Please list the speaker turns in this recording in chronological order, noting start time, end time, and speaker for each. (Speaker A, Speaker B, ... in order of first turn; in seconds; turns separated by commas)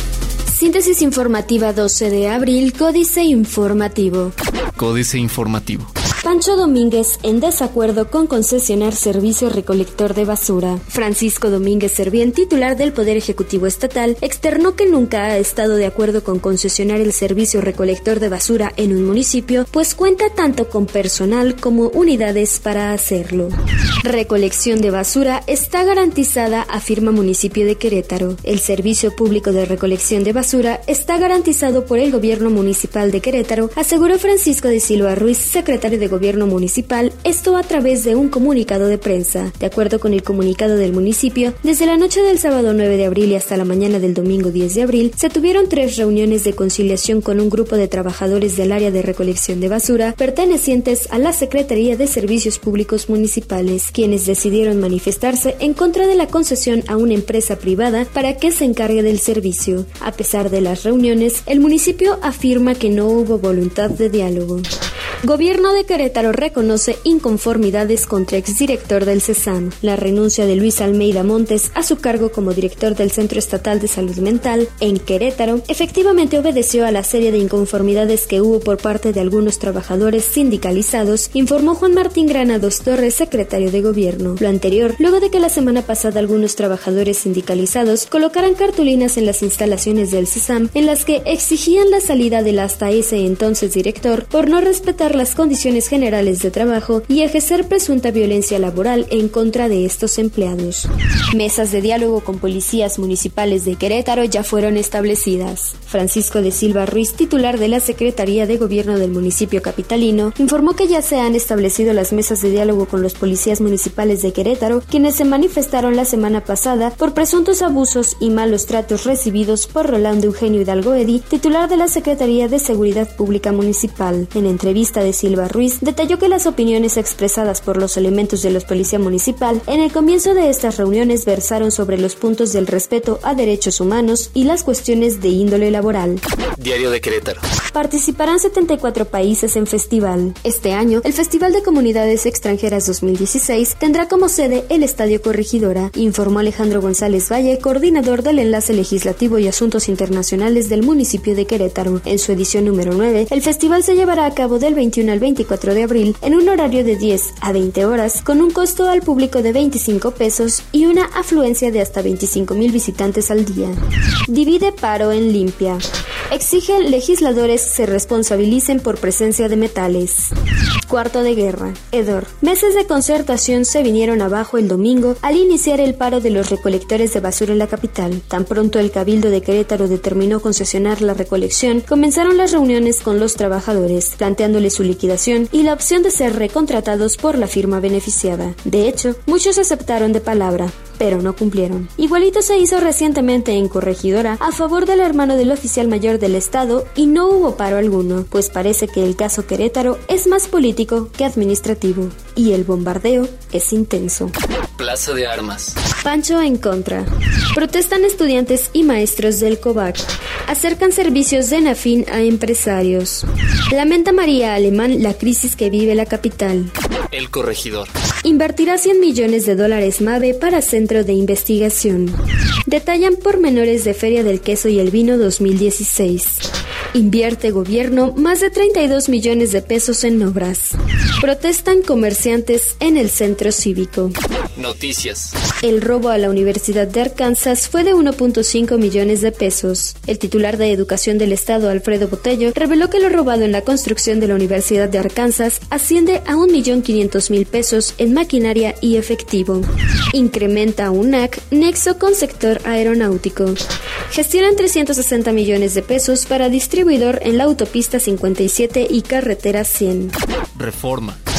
Speaker A: 0.5-4.3, Speaker B: 4.8-5.9, Speaker A: 6.2-64.7, Speaker A: 65.2-136.2, Speaker B: 136.6-137.4, Speaker A: 137.7-170.3, Speaker A: 170.9-204.3, Speaker B: 204.8-205.8, Speaker A: 206.0-216.7, Speaker B: 217.1-217.9, Speaker A: 218.2-234.2, Speaker B: 234.6-235.3, Speaker A: 235.6-260.1, Speaker B: 260.6-261.2